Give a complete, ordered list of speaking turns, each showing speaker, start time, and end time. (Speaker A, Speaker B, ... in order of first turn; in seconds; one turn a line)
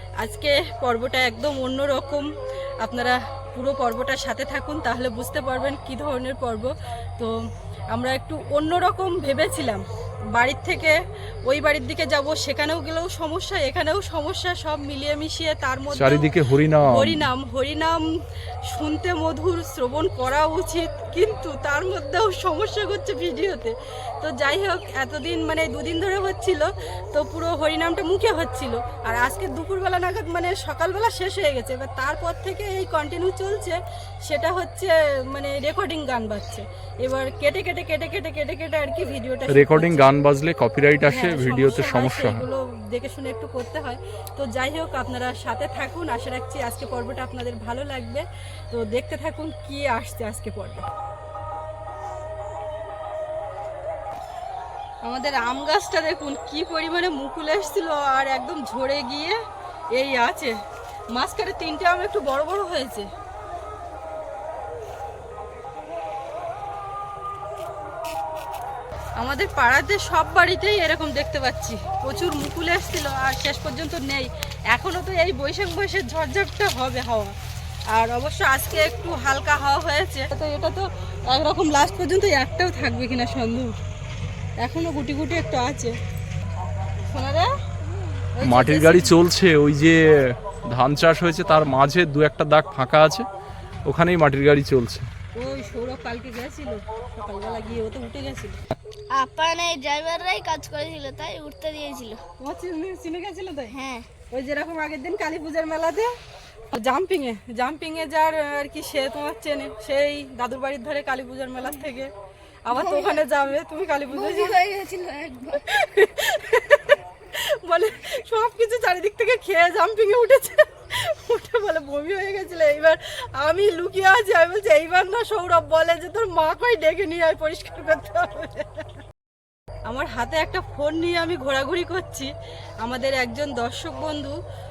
Speaker A: 0.2-2.3
Speaker A: 2.8-7.3
Speaker A: 7.9-16.3
Speaker B: 15.9-17.3
Speaker A: 16.8-18.1
Speaker A: 18.7-40.1
Speaker B: 39.5-42.5
Speaker A: 41.0-50.8
Speaker A: 55.0-59.4
Speaker A: 59.9-60.5
Speaker A: 61.1-63.1
Speaker A: 69.2-77.3
Speaker A: 77.9-83.8
Speaker A: 84.6-86.0
Speaker A: 87.1-87.5
Speaker A: 88.3-89.2
Speaker B: 88.4-93.3
Speaker B: 93.8-95.1
Speaker A: 95.3-98.6
Speaker C: 99.1-102.2
Speaker A: 102.4-106.1
Speaker C: 103.7-104.1
Speaker A: 106.7-112.1
Speaker A: 112.6-114.6
Speaker C: 112.7-113.2
Speaker C: 114.1-115.6
Speaker A: 115.5-128.9
Speaker A: 129.8-134.3